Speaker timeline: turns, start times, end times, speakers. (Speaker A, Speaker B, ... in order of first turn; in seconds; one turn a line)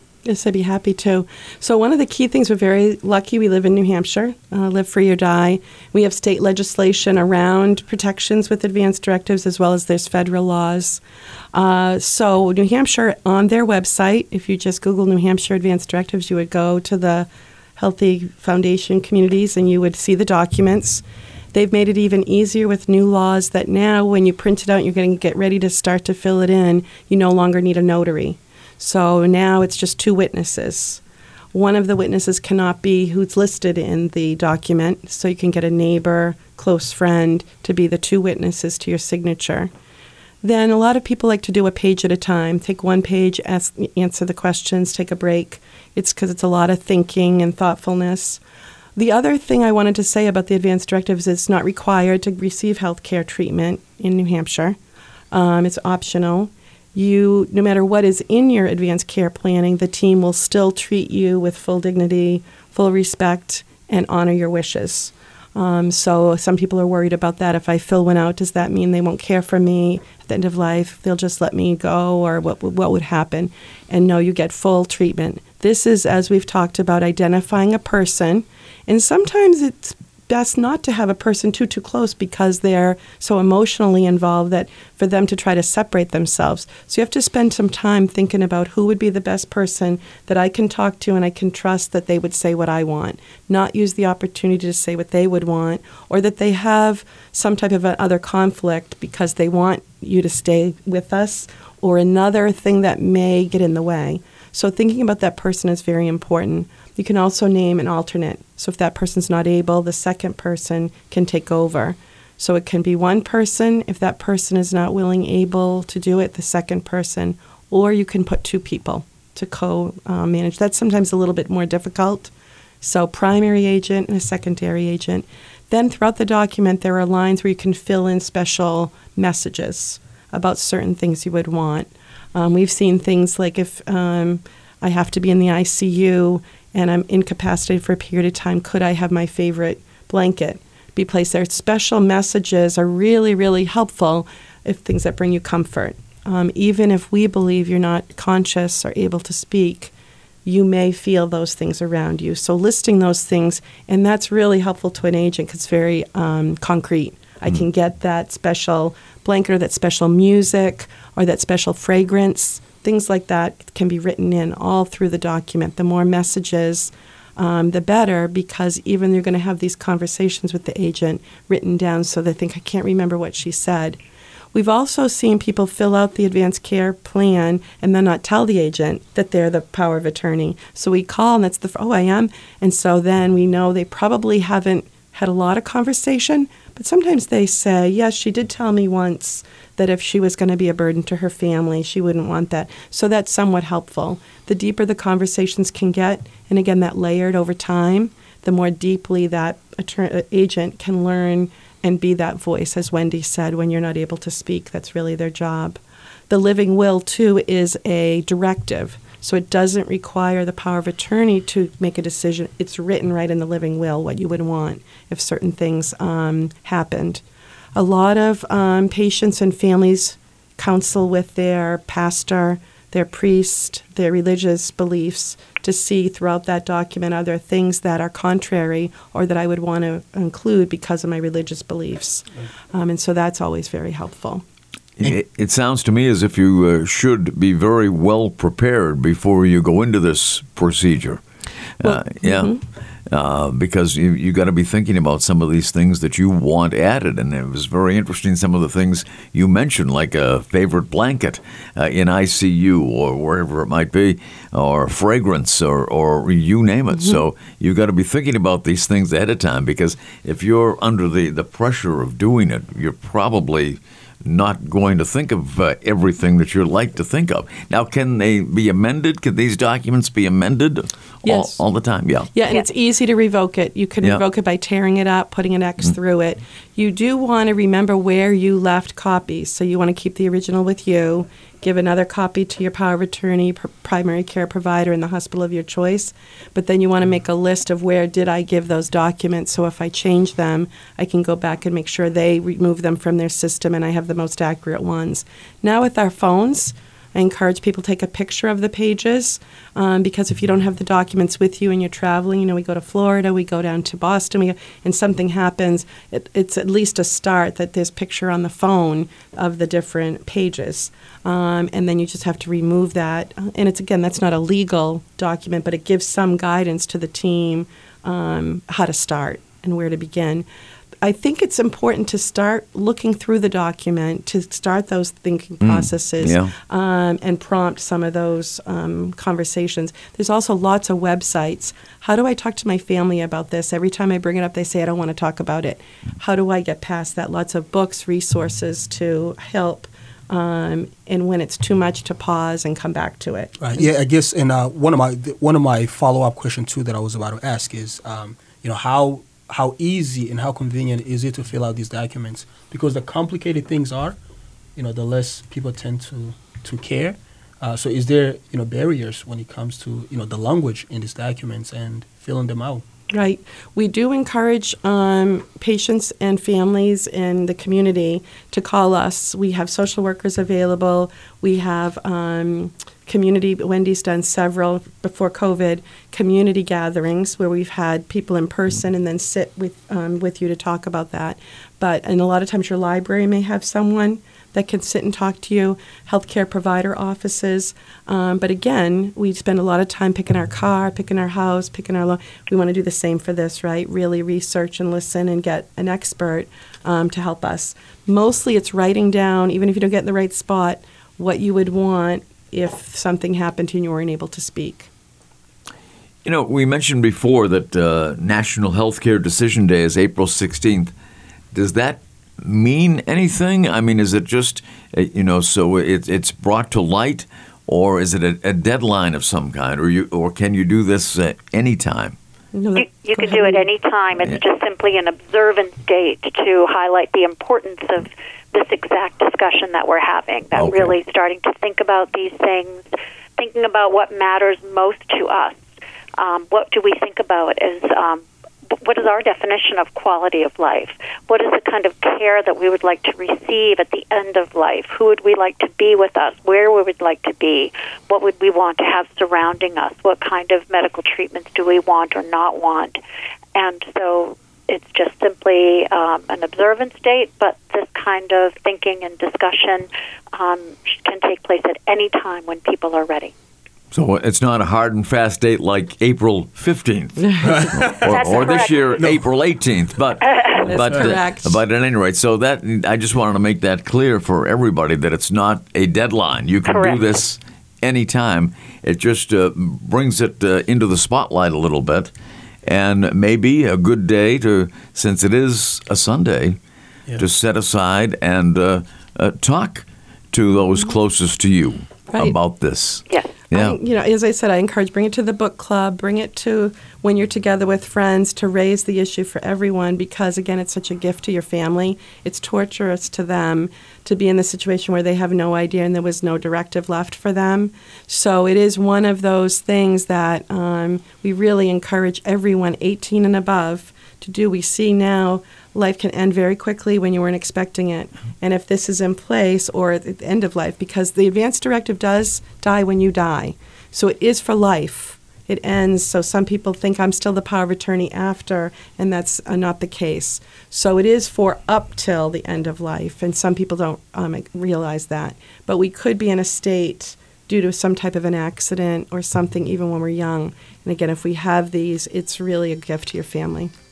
Speaker A: 0.2-11.0
Speaker A: 11.5-31.0
Speaker A: 31.5-39.7
Speaker A: 40.4-48.4
Speaker A: 49.0-54.8
Speaker A: 55.3-149.9
Speaker A: 150.4-174.0
Speaker A: 174.5-217.2
Speaker A: 217.8-234.4
Speaker B: 235.0-241.2
Speaker B: 241.8-242.6
Speaker A: 241.8-242.6
Speaker B: 243.1-272.3
Speaker A: 271.2-271.6
Speaker A: 272.3-320.4
Speaker A: 321.0-343.9
Speaker B: 325.6-326.5
Speaker C: 343.6-354.2
Speaker C: 354.8-362.8
Speaker A: 363.1-404.9
Speaker B: 406.2-410.9
Speaker B: 411.5-422.2
Speaker A: 422.5-423.6
Speaker D: 422.7-435.6
Speaker B: 430.5-430.9
Speaker D: 436.2-453.0
Speaker D: 453.5-463.3
Speaker B: 463.9-482.1
Speaker C: 467.4-468.4
Speaker D: 468.0-469.0
Speaker C: 469.0-469.2
Speaker D: 470.2-470.6
Speaker A: 470.5-471.6
Speaker D: 476.7-477.0
Speaker B: 482.6-486.6
Speaker B: 487.2-493.8
Speaker A: 493.5-543.7